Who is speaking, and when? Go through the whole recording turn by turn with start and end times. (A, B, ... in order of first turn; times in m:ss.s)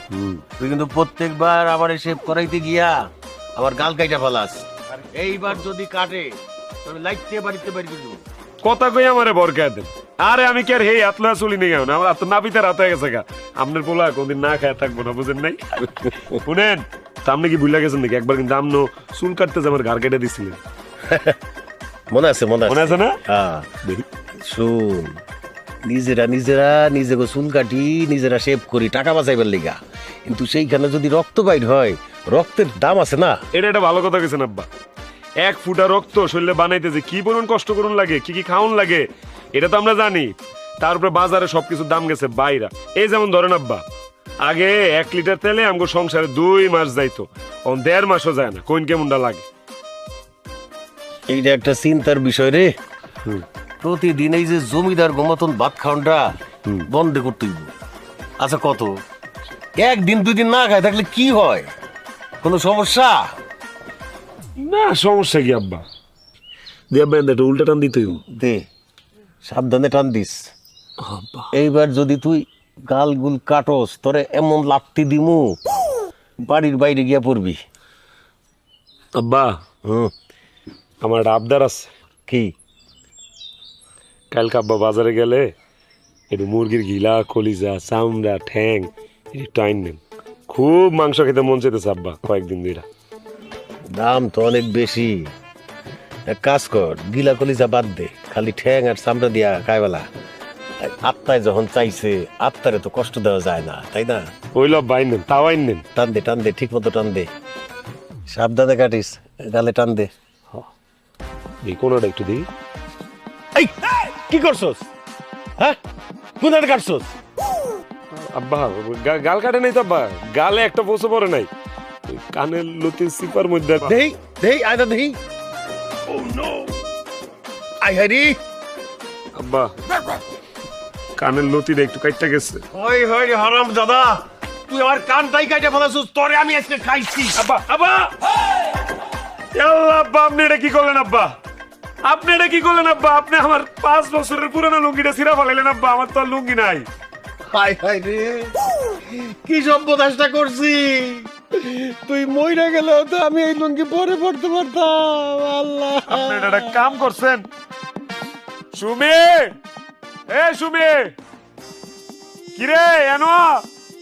0:00.1-0:00.4 A
0:00.6-0:06.3 B
0:06.8-0:08.2 B
0:08.6-0:20.6 A
0:21.1-0:21.4 B
0:22.1-0:23.7 B
0:22.7-0:23.2 A
0:24.4-0:25.2 B
0:25.8-0:33.4 B
0:33.5-0:34.7 A
0:35.4-0:43.8 A
0:44.4-0:49.4 A
0:51.3-0:52.7 B
0:53.8-0:57.7 B
0:58.4-0:59.0 B
0:59.8-1:01.7 B
1:02.4-1:03.3 B
1:04.6-1:05.8 A
1:06.9-1:08.2 A
1:08.2-1:08.6 B
1:09.4-1:10.5 B
1:11.0-1:11.5 A
1:11.5-1:15.6 B
1:16.4-1:17.6 B
1:19.2-1:19.6 A
1:19.8-1:20.1 B
1:21.0-1:21.9 A
1:24.3-1:25.5 A
1:26.3-1:32.8 A
1:33.9-1:35.3 B
1:36.3-1:40.1 B
1:40.8-1:44.3 B
1:44.5-1:45.9 A
1:46.0-1:47.3 B
1:48.3-1:50.1 B
1:51.6-1:52.5 A
1:53.6-1:54.9 B
1:56.4-1:57.1 B
1:58.1-2:01.5 A
2:02.1-2:04.0 A
2:03.8-2:05.2 B
2:06.1-2:06.7 B
2:07.8-2:08.4 B
2:09.3-2:09.7 A
2:11.2-2:12.6 A
2:12.7-2:17.4 B
2:17.3-2:18.2 A
2:19.6-2:21.4 A
2:22.0-2:26.9 A
2:27.5-2:36.8 B
2:36.1-2:37.5 A
2:38.7-2:39.6 A
2:40.3-2:41.2 A
2:42.6-2:43.7 A